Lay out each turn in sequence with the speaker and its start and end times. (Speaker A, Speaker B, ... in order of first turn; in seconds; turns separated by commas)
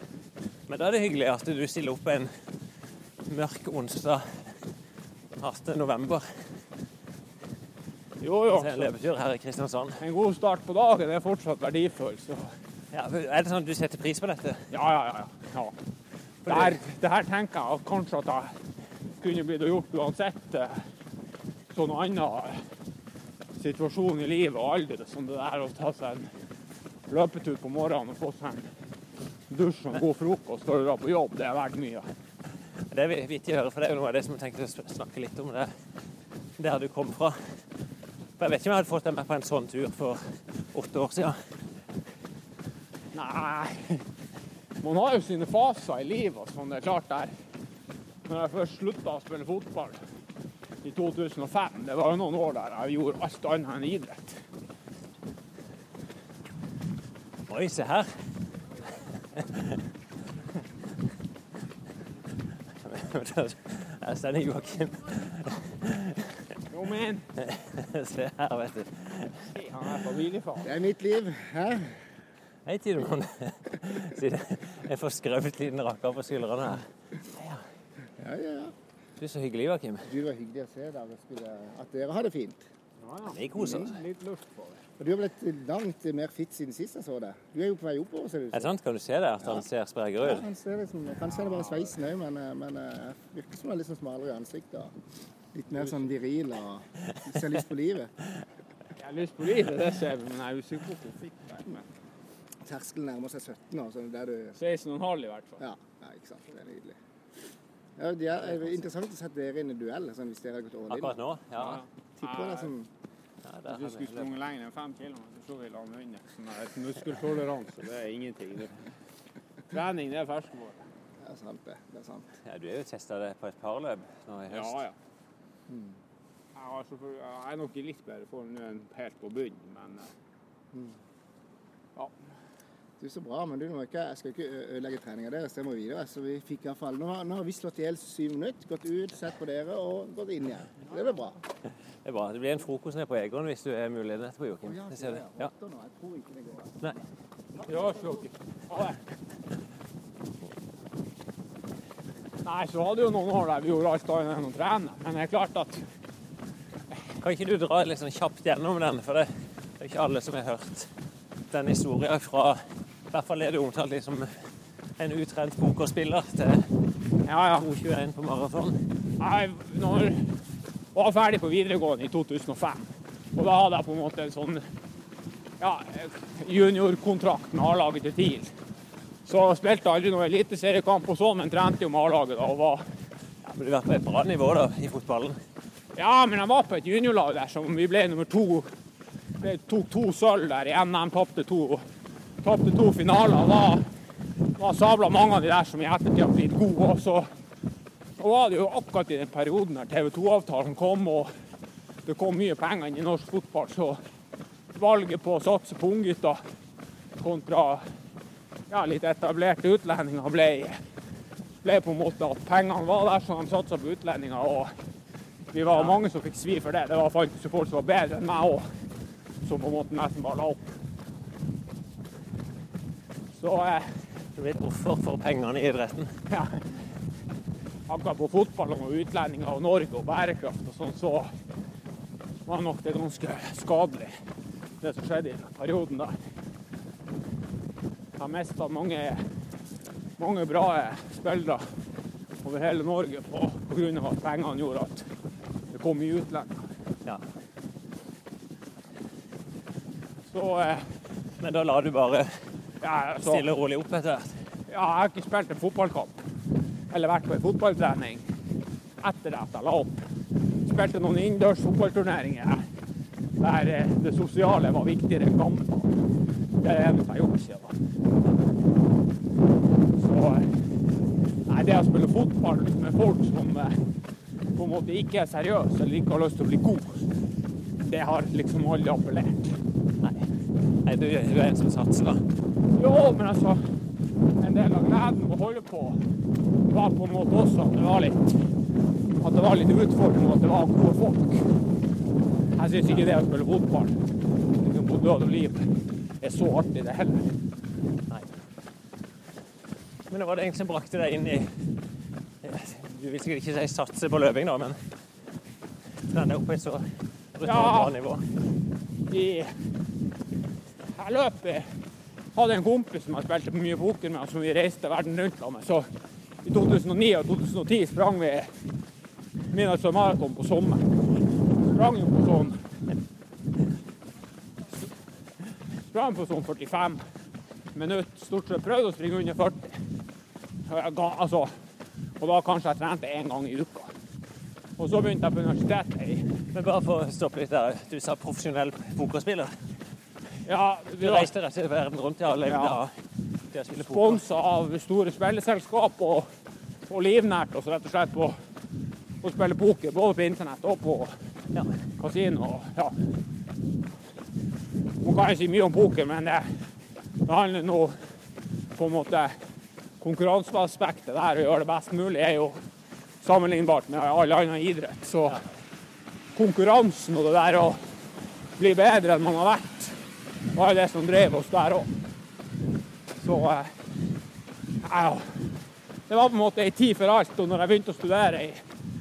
Speaker A: 0.7-2.3, Speaker A: 3.2-4.6, Speaker A: 5.4-6.4, Speaker B: 8.2-8.9, Speaker A: 8.5-10.0, Speaker B: 10.0-12.5, Speaker A: 12.9-14.7, Speaker B: 14.7-15.7, Speaker A: 16.4-16.8, Speaker B: 16.5-18.5, Speaker B: 19.2-20.8, Speaker B: 21.7-22.6, Speaker B: 23.6-26.3, Speaker B: 27.1-28.6, Speaker B: 29.5-32.1, Speaker A: 32.9-35.7, Speaker A: 36.6-37.4, Speaker A: 38.4-41.4, Speaker B: 43.1-44.0, Speaker B: 44.8-47.3, Speaker B: 48.3-50.0, Speaker B: 50.8-54.4, Speaker A: 57.5-58.1, Speaker A: 59.3-59.8, Speaker A: 62.8-66.4, Speaker B: 66.7-67.3, Speaker A: 67.4-69.5, Speaker B: 69.5-70.7, Speaker C: 70.6-72.0, Speaker A: 72.7-77.6, Speaker C: 78.2-78.7, Speaker A: 79.2-80.1, Speaker C: 80.0-82.6, Speaker B: 83.0-84.8, Speaker A: 83.3-84.0, Speaker C: 83.6-83.9, Speaker C: 85.0-88.7, Speaker A: 88.5-90.4, Speaker C: 90.2-94.9, Speaker C: 95.5-98.1, Speaker B: 99.0-101.8, Speaker C: 102.6-104.6, Speaker B: 104.6-105.6, Speaker C: 105.6-107.0, Speaker C: 108.0-111.2, Speaker A: 110.9-111.8, Speaker B: 111.6-112.7, Speaker C: 112.2-112.9, Speaker A: 113.4-114.3, Speaker B: 113.7-118.7, Speaker B: 119.7-120.8, Speaker C: 121.2-122.3, Speaker A: 122.4-124.8, Speaker B: 124.5-124.9, Speaker C: 125.7-126.0, Speaker B: 126.5-130.1, Speaker C: 130.7-131.0, Speaker C: 133.0-141.4, Speaker A: 142.0-145.5, Speaker C: 144.6-147.0, Speaker B: 147.6-149.0, Speaker B: 152.4-155.8, Speaker A: 157.2-160.9, Speaker A: 161.5-164.3, Speaker A: 165.0-166.7, Speaker B: 167.3-167.6, Speaker A: 167.6-168.8, Speaker B: 169.2-170.2, Speaker B: 170.9-174.6, Speaker B: 175.6-178.5, Speaker B: 179.2-182.8, Speaker A: 183.4-185.4, Speaker B: 185.9-188.7, Speaker B: 189.4-191.8, Speaker B: 192.4-193.8, Speaker B: 194.6-197.3, Speaker B: 198.2-201.3, Speaker B: 202.1-204.0, Speaker B: 204.7-206.4, Speaker B: 207.2-207.8, Speaker B: 208.7-210.8, Speaker B: 211.6-214.7, Speaker B: 215.5-218.7, Speaker B: 219.4-220.7, Speaker B: 223.4-223.9, Speaker A: 224.3-226.1, Speaker B: 226.3-226.6, Speaker B: 227.9-231.3, Speaker B: 232.5-234.1, Speaker B: 234.8-236.2, Speaker B: 238.2-239.2, Speaker B: 240.2-241.6, Speaker B: 242.4-245.1, Speaker B: 245.7-246.6, Speaker B: 250.3-250.8, Speaker A: 251.4-252.3, Speaker B: 252.8-253.5, Speaker A: 253.2-254.3, Speaker B: 254.7-256.2, Speaker B: 256.9-258.2, Speaker B: 259.0-260.0, Speaker B: 260.6-262.6, Speaker B: 263.4-265.9, Speaker B: 266.6-267.7, Speaker B: 270.0-270.5, Speaker B: 271.5-273.7, Speaker B: 274.6-277.0, Speaker B: 277.8-279.6, Speaker A: 280.8-282.2, Speaker B: 282.7-283.6, Speaker B: 284.4-286.0, Speaker B: 286.7-288.4, Speaker B: 289.2-291.4, Speaker B: 292.6-293.9, Speaker B: 294.6-295.7, Speaker B: 296.2-297.2, Speaker A: 300.1-301.7, Speaker A: 302.4-304.8, Speaker A: 306.1-306.8, Speaker A: 307.4-308.3, Speaker B: 307.4-307.9, Speaker B: 309.1-309.5, Speaker B: 311.0-311.6, Speaker B: 312.3-315.9, Speaker B: 316.4-318.5, Speaker B: 319.5-320.9, Speaker B: 321.6-322.6, Speaker B: 325.9-327.0, Speaker B: 327.7-329.8, Speaker B: 330.7-331.5, Speaker B: 332.2-333.9, Speaker B: 334.8-336.3, Speaker A: 336.5-339.5, Speaker B: 340.4-341.3, Speaker A: 341.0-342.9, Speaker B: 342.5-342.8, Speaker A: 343.5-344.2, Speaker B: 343.8-346.3, Speaker B: 346.9-348.4, Speaker B: 349.2-351.1, Speaker B: 352.0-352.9, Speaker B: 355.0-356.5, Speaker B: 357.2-358.0, Speaker B: 358.7-359.3, Speaker B: 360.0-362.6, Speaker B: 363.2-365.4, Speaker B: 366.3-367.8, Speaker B: 368.6-369.9, Speaker B: 370.5-371.9, Speaker B: 373.1-373.7, Speaker B: 374.8-375.3, Speaker B: 376.1-378.6